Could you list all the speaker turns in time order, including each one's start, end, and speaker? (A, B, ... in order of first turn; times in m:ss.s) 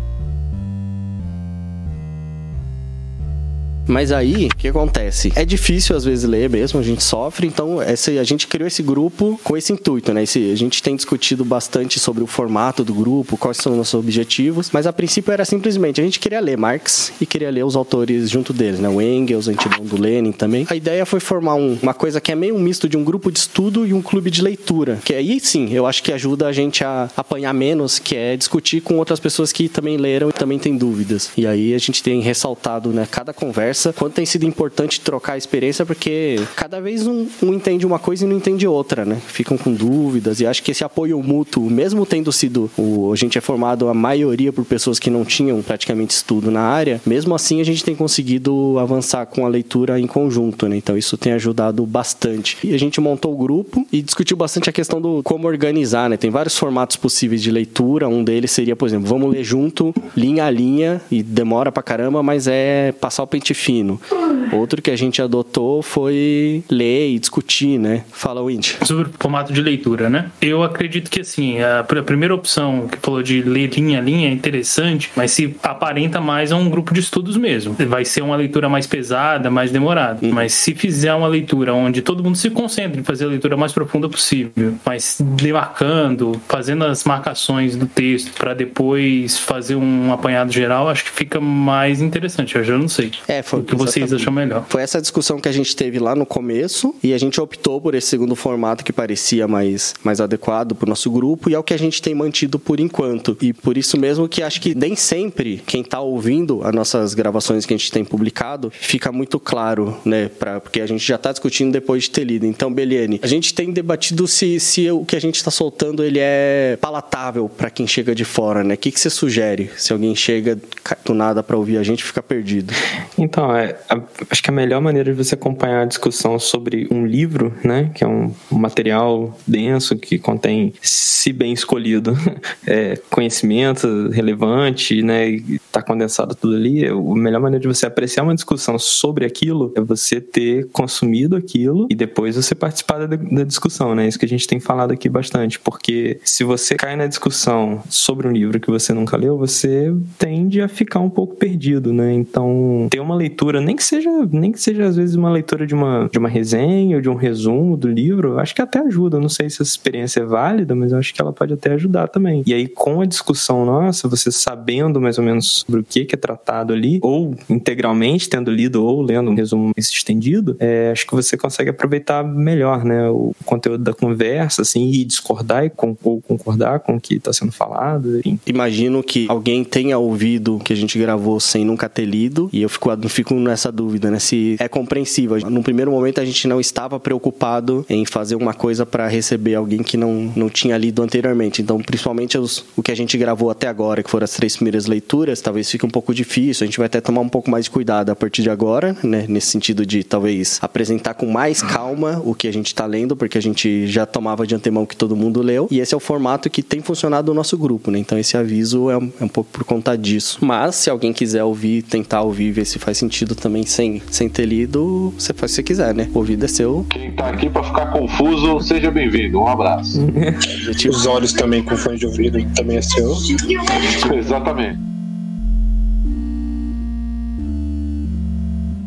0:03.9-1:08.8 A
1:08.8-1:34.7 B
1:33.3-2:02.8 A
2:03.2-2:58.4 C
2:58.5-3:36.9 A
3:36.9-3:40.0 D
3:40.0-3:40.5 C
3:40.6-3:41.3 A
3:40.9-3:43.1 E
3:43.7-3:44.4 A
3:44.1-3:44.8 D